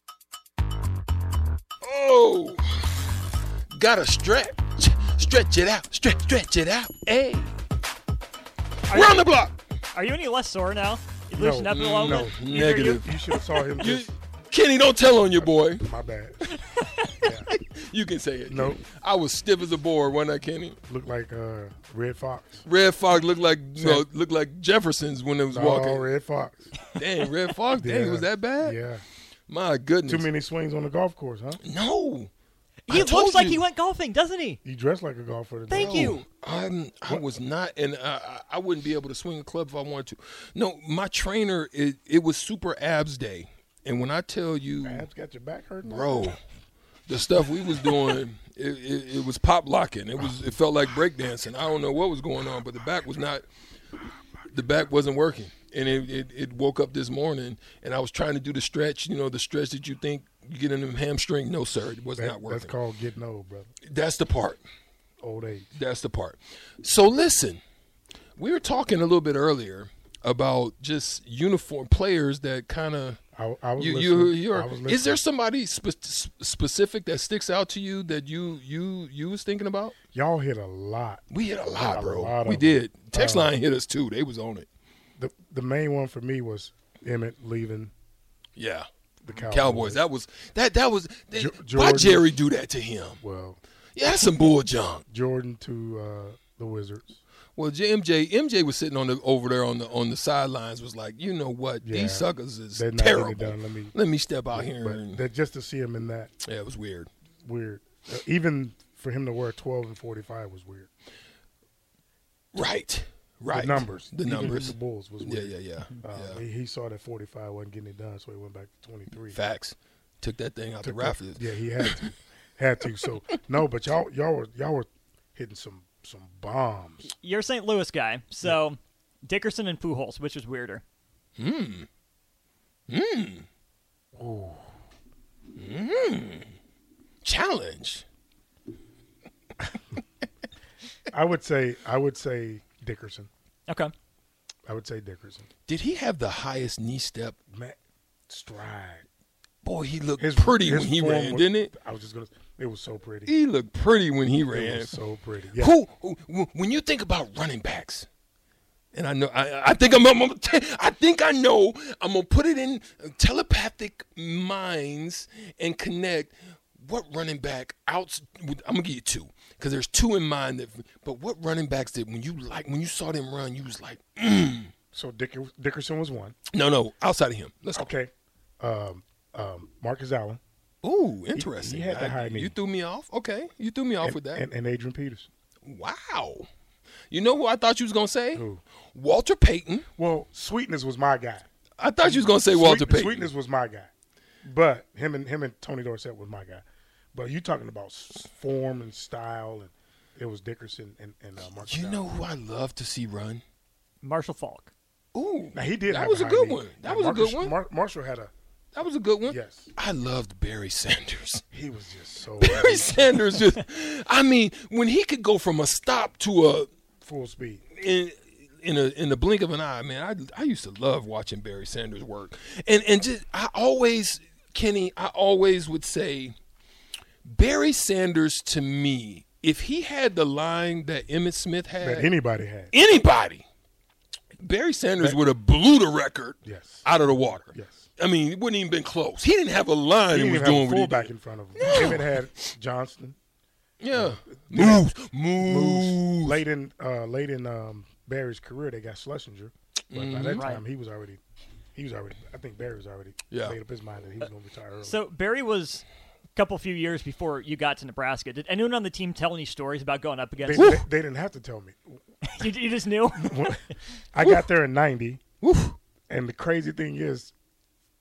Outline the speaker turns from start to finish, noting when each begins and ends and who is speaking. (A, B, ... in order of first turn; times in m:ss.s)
0:01.8-0:03.1 A
0:03.7-0:07.6 A
0:08.9-0:09.3 B
0:08.9-0:09.6 A
0:09.9-0:13.1 B
0:11.4-0:12.3 C
0:11.7-0:13.2 A
0:12.9-0:14.1 C
0:13.7-0:15.9 A
0:15.7-0:16.5 C
0:17.2-0:17.5 C
0:17.4-0:20.8 A
0:18.5-0:18.8 C
0:20.9-0:22.7 C
0:22.6-0:26.1 A
0:23.8-0:24.0 C
0:25.5-0:26.7 C
0:27.0-0:28.8 A
0:27.8-0:29.0 C
0:29.5-0:30.3 A
0:30.1-0:31.6 C
0:31.6-0:32.3 A
0:32.9-0:34.6 B
0:32.9-0:33.6 A
0:34.6-0:36.2 C
0:35.7-0:36.2 B
0:35.7-0:45.1 A
0:44.8-0:46.3 C
0:45.8-0:46.4 A
0:47.1-0:53.4 A
0:54.5-1:02.8 A
1:02.2-1:03.7 C
1:03.9-1:04.6 A
1:05.2-1:05.7 C
1:05.8-1:07.6 A
1:08.4-1:13.2 A
1:13.3-1:15.2 C
1:13.8-1:20.0 A
1:20.1-1:23.5 C
1:21.3-1:24.7 A
1:25.2-1:27.9 C
1:28.6-1:28.9 A
1:29.2-1:30.0 C
1:29.4-1:33.2 A
1:31.3-1:32.3 C
1:33.2-1:33.6 C
1:34.0-1:35.0 A
1:35.1-1:37.2 C
1:37.6-1:45.2 A
1:41.8-1:44.0 C
1:44.5-1:46.3 C
1:46.4-1:47.1 A
1:47.4-1:50.9 C
1:52.5-1:56.4 A
1:53.5-1:59.4 C
1:59.3-2:02.1 A
2:00.8-2:07.1 C
2:07.1-2:10.8 B
2:11.4-2:11.9 A
2:12.9-2:13.5 A
2:14.2-2:14.7 C
2:15.6-2:16.5 A
2:17.2-2:18.0 A
2:21.1-2:23.3 C
2:23.7-2:23.9 B
2:24.7-2:25.5 C
2:25.7-2:27.4 A
2:27.5-2:27.8 C
2:28.3-2:29.1 C
2:29.6-2:31.7 A
2:30.2-2:33.3 C
2:33.3-2:35.0 A
2:34.4-2:35.8 C
2:35.5-2:38.1 A
2:38.9-2:54.7 A
2:54.9-2:56.4 C
2:56.5-2:57.9 A
2:57.7-3:00.4 C
3:00.8-3:04.4 A
3:01.3-3:02.6 C
3:04.0-3:05.3 C
3:05.6-3:06.5 A
3:07.1-3:09.9 A
3:08.3-3:08.6 C
3:10.0-3:11.5 C
3:11.8-3:13.3 A
3:12.0-3:13.9 C
3:14.4-3:22.1 C
3:21.6-3:23.4 A
3:24.0-3:24.7 B
3:25.1-3:27.5 A
3:25.5-3:28.3 C
3:28.7-3:31.4 A
3:29.3-3:29.7 C
3:31.5-3:33.2 C
3:32.4-3:36.7 A
3:37.0-3:37.7 C
3:37.7-3:46.4 A
3:47.2-3:52.1 A
3:51.8-3:52.7 C
3:52.7-3:53.4 A
3:54.4-4:02.3 A
3:56.4-3:57.9 C
4:00.1-4:03.2 C
4:03.8-4:06.4 A
4:03.9-4:11.2 C
4:09.9-4:10.5 A
4:10.4-4:10.6 B
4:11.8-4:15.0 C
4:13.3-4:13.6 A
4:14.8-4:20.8 B
4:20.4-4:22.0 C
4:20.5-4:20.9 A
4:22.3-4:23.6 B
4:23.2-4:25.2 C
4:24.2-4:24.5 A
4:25.4-4:25.8 A
4:26.1-4:27.3 C